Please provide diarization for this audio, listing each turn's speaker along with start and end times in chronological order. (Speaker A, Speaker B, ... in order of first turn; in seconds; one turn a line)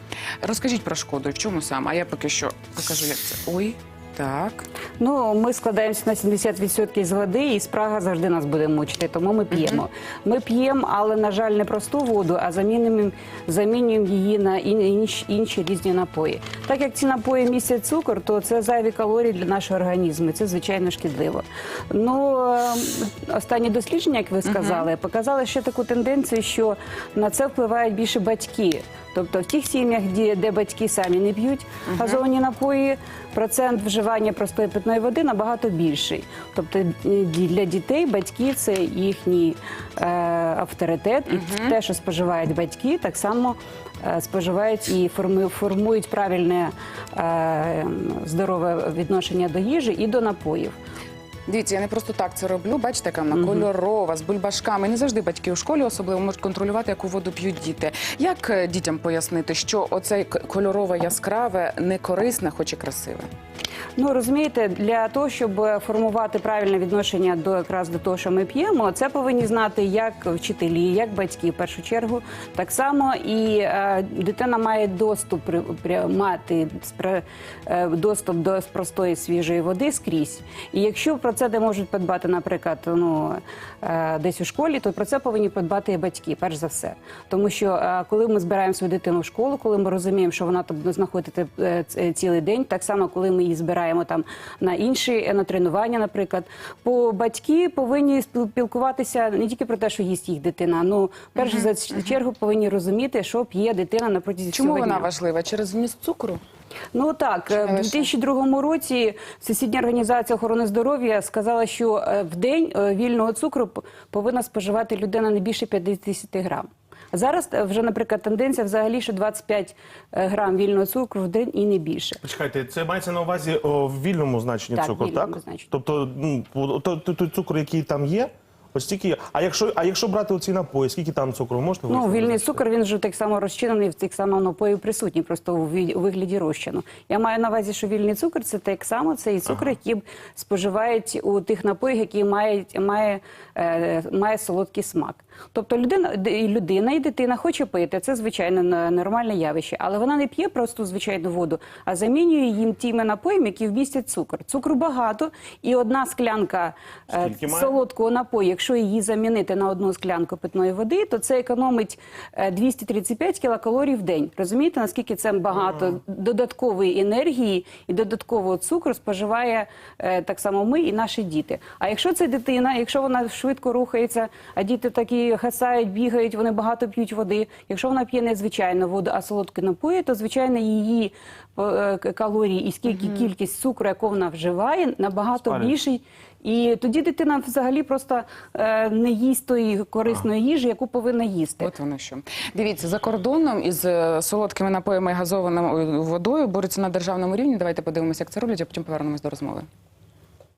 Speaker A: 0.4-4.7
Speaker B: 5.0-50.8
Speaker A: 9.5-9.8
Speaker A: 24.4-24.9
Speaker A: 31.9-32.2
Speaker A: 41.3-41.8
Speaker A: 51.5-63.3
Speaker B: 53.3-53.7
Speaker B: 64.0-105.1
Speaker A: 101.4-102.1
Speaker A: 104.5-106.4
Speaker B: 106.9-122.2
Speaker A: 107.5-108.1
Speaker C: 122.2-132.6
Speaker B: 124.8-125.7
Speaker B: 131.9-191.7
Speaker C: 157.1-157.7
Speaker A: 182.9-183.2
Speaker A: 191.6-199.7